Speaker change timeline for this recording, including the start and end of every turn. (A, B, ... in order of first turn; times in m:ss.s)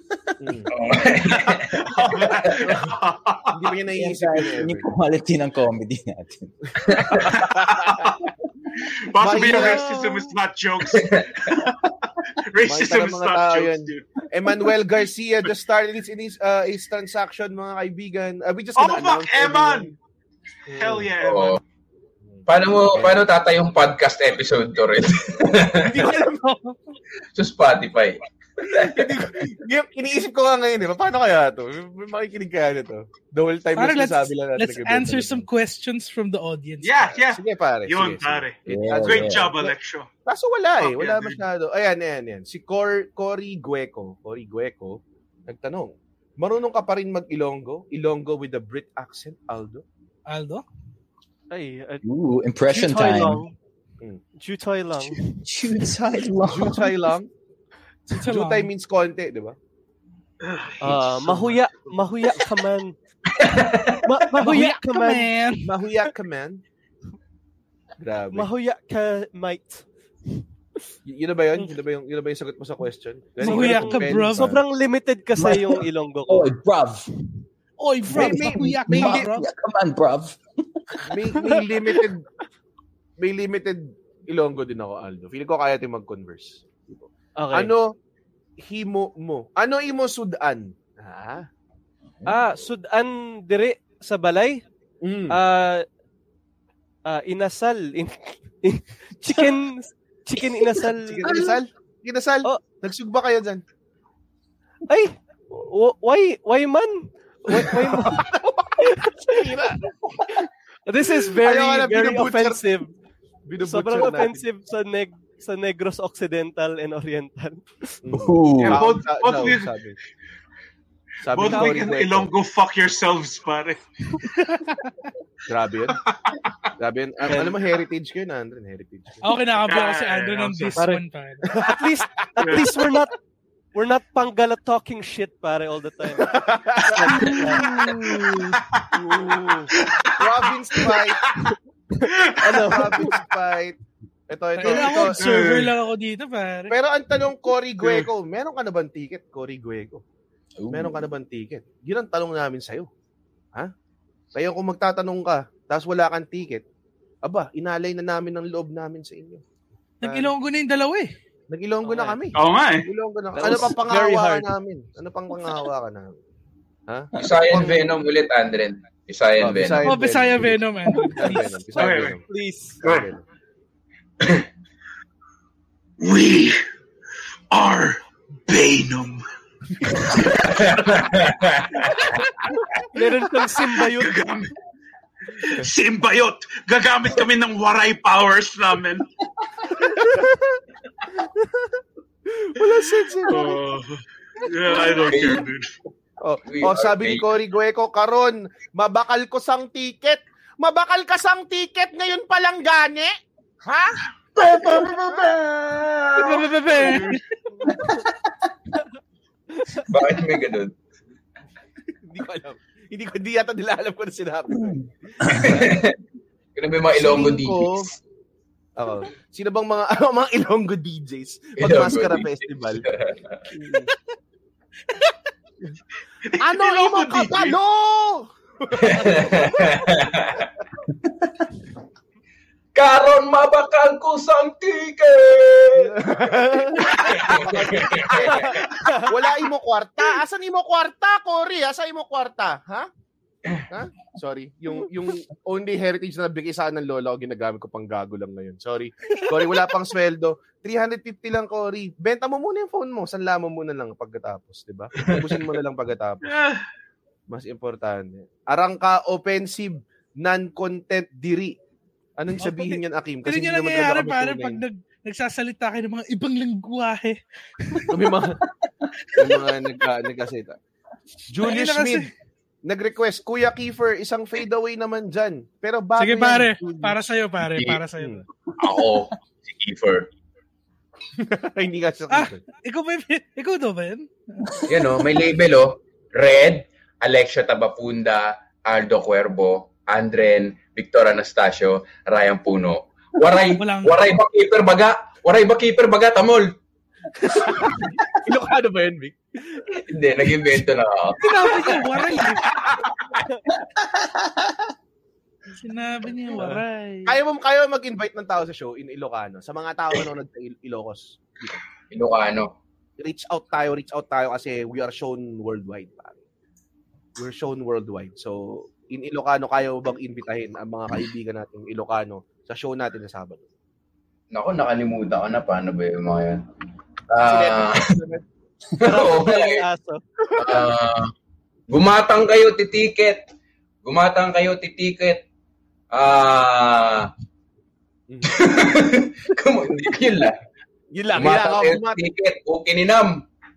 0:00.4-0:00.7 A
0:00.7-0:01.8 B
0:01.3-0:03.7 C
0:03.5-0:04.9 A
0:03.9-0:06.5 D
0:06.9-0:07.2 B
0:07.0-0:07.9 A
0:07.2-0:08.2 C
0:09.1-0:11.8 C
0:09.2-0:09.9 A
0:09.4-0:10.3 E
0:10.9-0:11.2 B
0:12.5-0:14.1 C
0:12.6-0:19.9 A
0:18.8-0:20.0 C
0:20.8-0:21.6 C
0:20.8-0:21.0 A
0:21.2-0:21.6 B
0:22.3-0:23.3 A
0:22.5-0:26.0 B
0:25.8-0:26.4 A
0:26.4-0:26.8 E
0:27.4-0:29.1 B
0:28.6-0:35.5 A
0:33.8-0:37.1 E
0:36.8-0:40.1 C
0:37.3-0:39.7 A
0:38.7-0:39.5 D
0:40.3-0:49.8 A
0:40.8-0:41.4 C
0:50.3-0:50.6 E
0:51.5-0:52.0 F
0:52.0-0:53.4 D
0:52.7-0:53.5 F
0:54.4-0:55.4 F
0:55.4-0:57.0 D
0:56.5-0:57.3 A
0:58.1-0:58.7 E
0:58.2-0:59.6 A
1:00.5-1:00.7 C
1:00.8-1:03.0 F
1:00.8-1:01.6 A
1:03.3-1:04.1 B
1:04.0-1:05.3 F
1:04.4-1:05.7 E
1:05.6-1:06.6 A
1:08.0-1:08.5 A
1:08.3-1:10.4 F
1:11.1-1:14.6 A
1:13.4-1:16.5 F
1:13.4-1:14.6 E
1:15.4-1:17.1 D
1:17.8-1:19.5 E
1:18.1-1:19.3 A
1:18.1-1:20.4 D
1:21.1-1:22.2 A
1:23.2-1:28.0 A
1:27.4-1:27.7 F
1:28.6-1:31.5 A
1:32.3-1:34.6 F
1:35.0-1:35.4 A
1:35.3-1:35.8 F
1:37.1-1:41.5 F
1:40.9-1:43.6 A
1:44.9-1:49.6 F
1:47.5-1:49.8 A
1:50.9-1:52.9 F
1:51.3-1:52.6 A
1:53.5-1:54.4 A
1:53.6-1:58.0 F
1:58.0-2:00.0 A
1:58.1-1:58.8 D
1:58.6-1:59.7 C
2:01.2-2:02.3 A
2:01.3-2:03.8 C
2:01.5-2:01.8 F
2:05.5-2:06.0 A
2:06.8-2:09.2 A
2:07.3-2:07.6 F
2:09.2-2:11.4 E
2:09.6-2:10.8 C
2:10.8-2:13.1 F
2:11.5-2:11.8 A
2:12.4-2:12.7 C
2:13.7-2:18.2 F
2:16.2-2:18.4 A
2:18.9-2:21.2 A
2:19.8-2:20.5 C
2:22.0-2:23.2 F
2:22.1-2:22.6 C
2:22.5-2:23.8 A
2:24.3-2:25.3 A
2:24.6-2:26.7 E
2:24.6-2:25.8 C
2:26.7-2:30.0 A
2:30.6-2:31.1 D
2:30.7-2:32.9 A
2:34.3-2:36.6 A
2:37.2-2:39.4 A
2:40.0-2:41.1 E
2:40.0-2:40.3 A
2:41.5-2:46.2 A
2:41.8-2:42.2 F
2:42.3-2:42.9 C
2:43.4-2:44.5 F
2:46.9-2:47.9 A
2:47.2-2:49.9 B
2:49.4-2:52.2 A
2:49.8-2:51.6 E
2:51.7-2:52.8 F
2:51.8-2:52.2 C
2:52.8-2:53.2 A
2:52.8-2:53.1 C
2:56.0-2:56.6 C
2:57.5-2:59.2 C
3:00.2-3:00.8 C
3:00.4-3:01.9 B
3:02.9-3:04.2 F
3:03.9-3:04.5 C
3:05.4-3:09.0 C
3:12.3-3:13.6 A
3:13.3-3:15.7 C
3:15.1-3:15.4 B
3:16.2-3:23.1 A
3:16.5-3:17.3 B
3:23.6-3:24.0 A
3:24.4-3:26.1 B
3:24.6-3:24.9 C
3:26.2-3:27.2 E
3:26.8-3:27.1 C
3:29.9-3:30.7 B
3:32.0-3:35.8 A
3:35.4-3:36.0 B
3:36.6-3:37.9 B
3:36.9-3:37.9 A
3:38.8-3:42.8 A
3:41.6-3:43.4 B
3:43.5-3:43.9 A
3:46.3-3:47.6 C
3:46.4-3:49.8 A
3:48.8-3:50.5 B
3:52.7-3:56.0 B
3:55.8-4:02.9 A
3:56.8-3:58.6 B
3:58.2-3:59.3 F
4:03.7-4:16.3 A
4:16.3-4:16.6 C
4:17.3-4:21.6 A
4:22.2-4:24.6 A
4:22.4-4:27.9 E
4:27.9-4:28.4 A
4:29.2-4:30.6 A
4:31.3-4:32.1 A
4:31.4-4:32.1 E
4:32.6-4:37.2 A
4:36.0-4:38.2 E
4:38.6-4:40.1 B
4:41.2-4:42.4 A
4:42.1-4:44.5 E
4:44.7-4:56.6 B
4:53.6-4:54.1 E
4:57.2-4:59.8 A
4:59.9-5:01.7 B
5:01.2-5:02.4 E
5:04.0-5:04.4 D
5:05.6-5:06.7 E
5:06.4-5:07.1 F
5:07.1-5:11.6 A
5:11.9-5:12.5 B
5:13.0-5:16.2 A
5:17.2-5:23.5 A
5:24.3-5:26.4 B
5:27.1-5:28.0 B
5:27.2-5:28.2 A
5:28.8-5:30.0 F
5:28.8-5:29.6 B
5:30.4-5:30.7 A
5:30.4-5:31.1 B
5:31.7-5:33.2 B
5:33.8-5:35.2 B
5:35.9-5:37.1 B
5:38.1-5:38.4 A
5:38.2-5:40.4 B
5:40.9-5:42.0 A
5:41.1-5:43.2 B